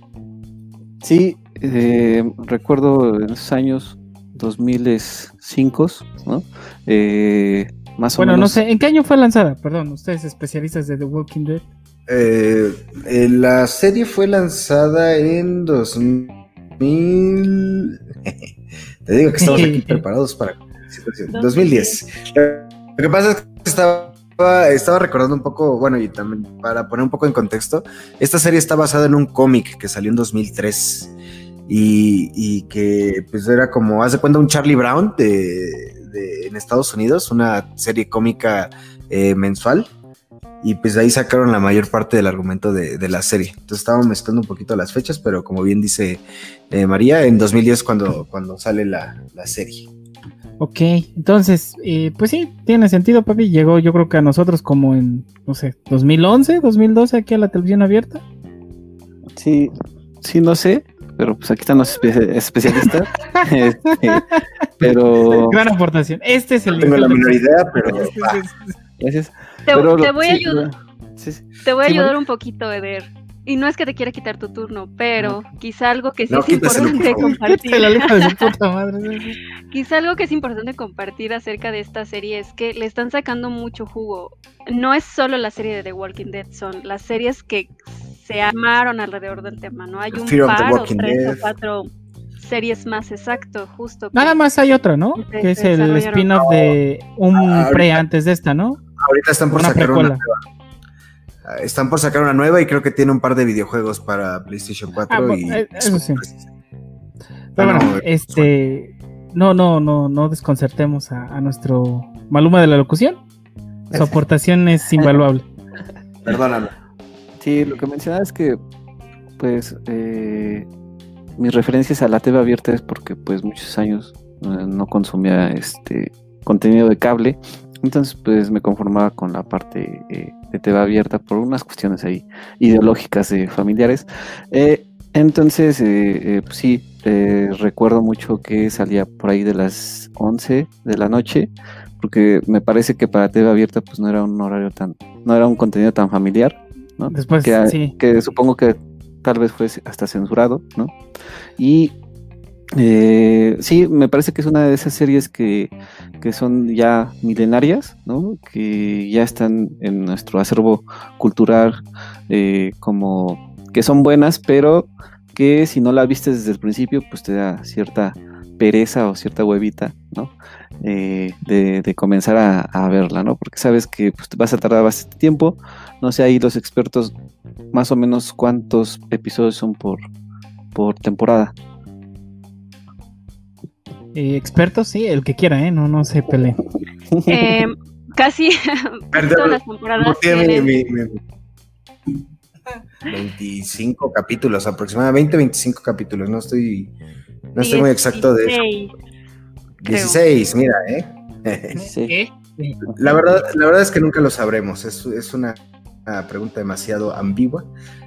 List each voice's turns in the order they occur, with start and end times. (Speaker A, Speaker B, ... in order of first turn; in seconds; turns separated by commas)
Speaker A: 1.0-8.6, Speaker B: 8.2-11.6, Speaker C: 12.1-18.4, Speaker C: 19.1-31.1, Speaker B: 19.4-20.0, Speaker D: 21.3-22.0, Speaker C: 31.7-39.9, Speaker C: 40.6-49.9, Speaker B: 50.6-58.2, Speaker A: 59.4-64.3, Speaker B: 62.8-64.4, Speaker A: 64.8-65.6, Speaker B: 65.5-68.8, Speaker C: 66.7-68.4, Speaker A: 69.0-72.1, Speaker D: 69.7-70.7, Speaker D: 71.6-78.5, Speaker C: 76.3-77.3, Speaker B: 76.7-79.4, Speaker D: 79.7-91.9, Speaker C: 90.1-91.5, Speaker D: 92.4-94.4, Speaker B: 94.1-98.8, Speaker D: 95.2-96.3, Speaker C: 96.5-96.7, Speaker C: 97.3-98.0, Speaker C: 99.0-100.4, Speaker B: 99.5-100.3, Speaker C: 101.5-106.5, Speaker B: 105.1-106.2, Speaker C: 107.6-108.5, Speaker B: 107.6-113.2, Speaker A: 113.9-114.2, Speaker B: 113.9-115.4, Speaker C: 116.2-116.7, Speaker A: 117.4-118.6, Speaker A: 119.4-120.7, Speaker A: 121.4-151.0, Speaker B: 147.1-147.9, Speaker A: 151.6-151.9, Speaker A: 152.8-161.8, Speaker A: 162.3-177.1, Speaker A: 177.7-180.0, Speaker A: 180.7-181.5, Speaker B: 184.1-186.6, Speaker A: 187.1-187.6, Speaker D: 187.3-190.7, Speaker C: 189.1-191.2, Speaker C: 193.1-196.9, Speaker C: 197.5-198.6, Speaker D: 197.6-198.9, Speaker C: 199.8-201.8, Speaker D: 199.9-200.2, Speaker B: 201.7-202.8, Speaker A: 201.9-202.2, Speaker A: 202.8-203.2, Speaker C: 203.0-207.7